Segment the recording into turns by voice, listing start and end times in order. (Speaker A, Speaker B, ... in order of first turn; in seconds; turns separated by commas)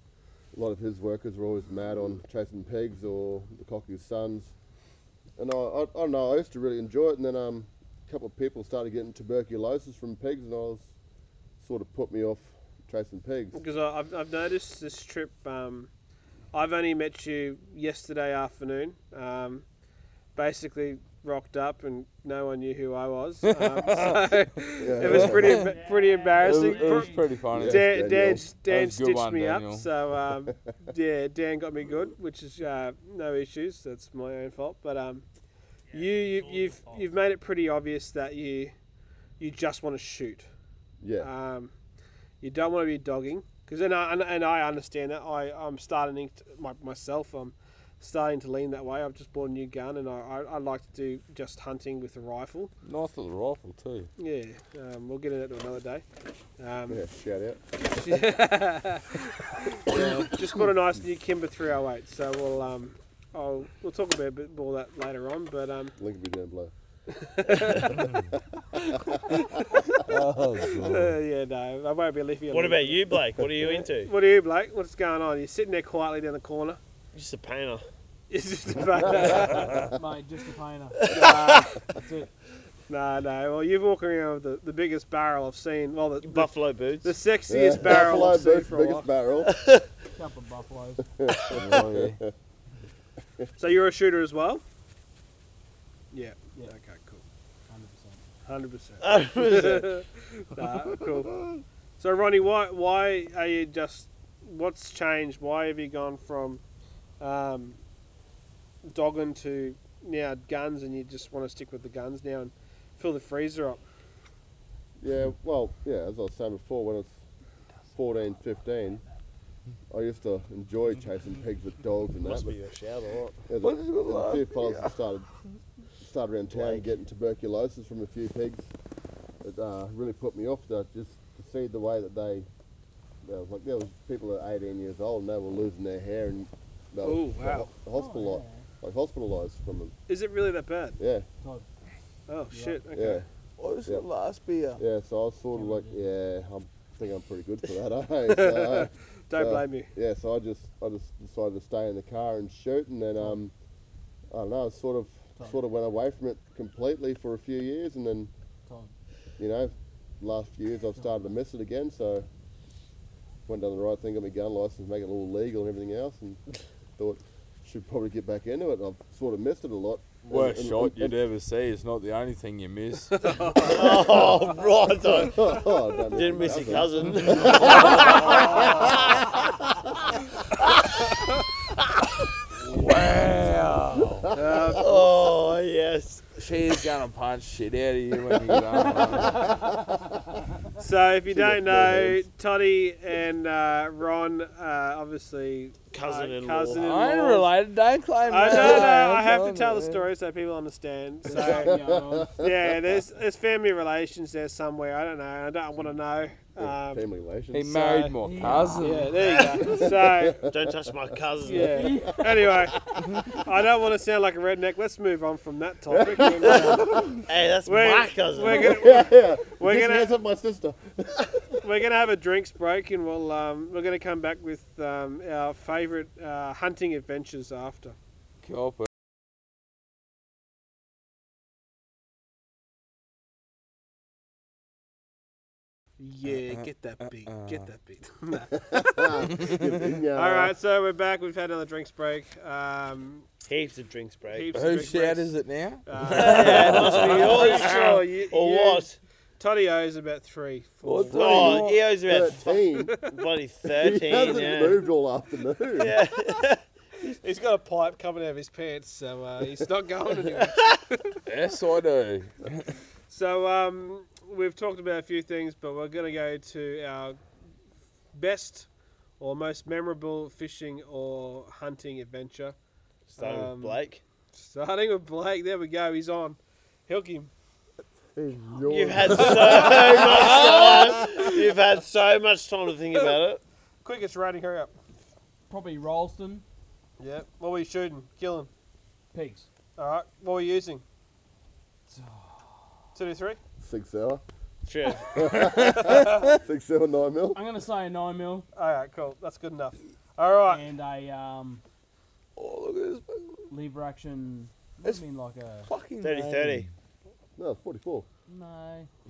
Speaker A: 0.5-4.5, Speaker A: 5.4-10.9, Speaker A: 11.6-13.6, Speaker B: 13.5-15.9, Speaker B: 16.5-19.6, Speaker B: 20.4-35.2, Speaker C: 23.4-24.3, Speaker A: 24.8-25.6, Speaker C: 25.1-25.8, Speaker D: 25.8-27.2, Speaker C: 26.4-29.9, Speaker A: 27.5-28.4, Speaker B: 35.9-38.7, Speaker E: 36.3-37.0, Speaker B: 39.4-40.5, Speaker A: 41.0-41.3, Speaker B: 41.2-41.7, Speaker B: 42.4-52.7, Speaker C: 52.9-54.1, Speaker B: 54.2-56.0, Speaker B: 56.6-57.0, Speaker A: 56.9-57.6, Speaker B: 57.9-66.0, Speaker A: 59.9-60.3, Speaker A: 66.0-66.7, Speaker B: 67.1-68.1, Speaker C: 67.9-68.2, Speaker B: 68.8-70.0, Speaker A: 69.0-69.4, Speaker C: 70.0-71.2, Speaker B: 70.6-76.8, Speaker E: 72.5-74.1, Speaker E: 77.1-77.9, Speaker B: 78.3-79.9, Speaker A: 79.0-79.9, Speaker D: 79.4-82.3, Speaker E: 81.0-81.6, Speaker B: 81.1-81.8, Speaker B: 82.9-89.1, Speaker E: 86.2-87.1, Speaker A: 87.5-89.5, Speaker E: 89.4-89.9, Speaker D: 90.2-91.1, Speaker A: 91.1-92.3, Speaker C: 91.5-92.2, Speaker B: 93.6-94.6, Speaker B: 96.1-97.2, Speaker D: 97.7-98.2, Speaker B: 98.5-101.4, Speaker E: 99.0-99.9, Speaker B: 102.0-106.6, Speaker B: 107.2-107.8, Speaker B: 108.8-113.8, Speaker A: 115.0-117.2, Speaker A: 117.9-119.0, Speaker A: 119.9-122.6, Speaker E: 122.2-123.4, Speaker A: 123.5-125.3, Speaker C: 123.6-124.9, Speaker A: 126.0-128.7, Speaker E: 126.5-126.9, Speaker A: 129.4-132.5, Speaker A: 133.2-139.9, Speaker B: 137.0-137.7, Speaker D: 137.9-138.7, Speaker B: 140.1-141.0, Speaker A: 141.0-141.3, Speaker D: 141.4-141.7, Speaker B: 142.3-143.2, Speaker D: 142.5-142.8, Speaker A: 142.9-143.3, Speaker C: 143.6-144.8, Speaker A: 144.8-153.5, Speaker D: 145.5-146.0, Speaker B: 148.3-149.9, Speaker A: 154.3-158.3, Speaker D: 155.4-155.6, Speaker D: 158.7-158.9, Speaker A: 159.4-162.3, Speaker D: 161.0-161.2, Speaker A: 163.5-166.4, Speaker A: 167.0-171.2, Speaker C: 170.3-173.7, Speaker B: 173.2-174.0, Speaker E: 173.6-175.5, Speaker A: 175.1-179.6, Speaker E: 176.1-179.2, Speaker C: 177.3-178.1, Speaker B: 178.3-178.9, Speaker C: 182.5-184.3, Speaker A: 184.0-184.6, Speaker B: 184.3-185.1, Speaker E: 184.8-186.5, Speaker C: 186.4-189.6, Speaker A: 188.3-190.0, Speaker B: 190.8-197.5, Speaker A: 191.3-192.2, Speaker E: 195.9-196.9, Speaker C: 196.8-200.1, Speaker B: 198.2-201.8, Speaker D: 201.2-202.3, Speaker A: 201.4-202.8, Speaker B: 202.4-207.1, Speaker A: 206.6-207.9, Speaker C: 207.5-209.2, Speaker B: 207.7-208.2, Speaker D: 208.2-209.7, Speaker B: 208.8-210.4, Speaker A: 209.6-210.6, Speaker E: 210.5-212.0, Speaker B: 211.4-217.1, Speaker D: 211.6-212.5, Speaker A: 212.0-213.0, Speaker C: 213.0-213.3, Speaker A: 215.9-217.2, Speaker E: 217.3-218.9, Speaker B: 217.7-220.1, Speaker A: 218.6-221.7, Speaker B: 221.6-228.0, Speaker C: 228.4-228.9, Speaker B: 236.0-239.3, Speaker C: 236.3-236.6, Speaker C: 237.3-237.7, Speaker A: 238.5-240.5, Speaker C: 239.4-239.7, Speaker B: 240.1-243.3, Speaker E: 243.5-244.6, Speaker B: 244.3-245.3, Speaker C: 244.5-247.8, Speaker B: 245.9-248.9, Speaker E: 246.2-249.0, Speaker B: 249.4-251.7, Speaker C: 250.8-251.9, Speaker E: 251.1-254.8, Speaker A: 252.0-253.0, Speaker B: 252.8-253.1, Speaker A: 253.8-256.0, Speaker E: 255.8-256.6, Speaker B: 257.1-261.2, Speaker C: 261.3-262.7, Speaker B: 263.1-267.2, Speaker B: 268.1-268.7, Speaker B: 269.2-272.6, Speaker E: 273.1-274.0, Speaker B: 273.2-273.8, Speaker B: 274.3-277.3, Speaker A: 278.1-280.9, Speaker E: 278.6-283.4, Speaker B: 280.2-281.1, Speaker B: 283.8-284.7, Speaker D: 285.5-286.4, Speaker B: 287.0-288.5, Speaker D: 289.1-289.5, Speaker B: 289.8-290.8, Speaker D: 291.9-292.6, Speaker B: 292.9-293.4, Speaker A: 293.6-294.2, Speaker E: 294.6-295.2, Speaker A: 295.1-297.4, Speaker C: 295.6-296.4, Speaker B: 295.6-296.3, Speaker D: 297.3-298.5, Speaker B: 298.6-300.6, Speaker D: 300.5-301.6, Speaker C: 302.4-303.5, Speaker D: 303.5-305.7, Speaker C: 305.7-306.7, Speaker E: 306.0-306.7, Speaker A: 307.4-308.1, Speaker D: 308.3-308.9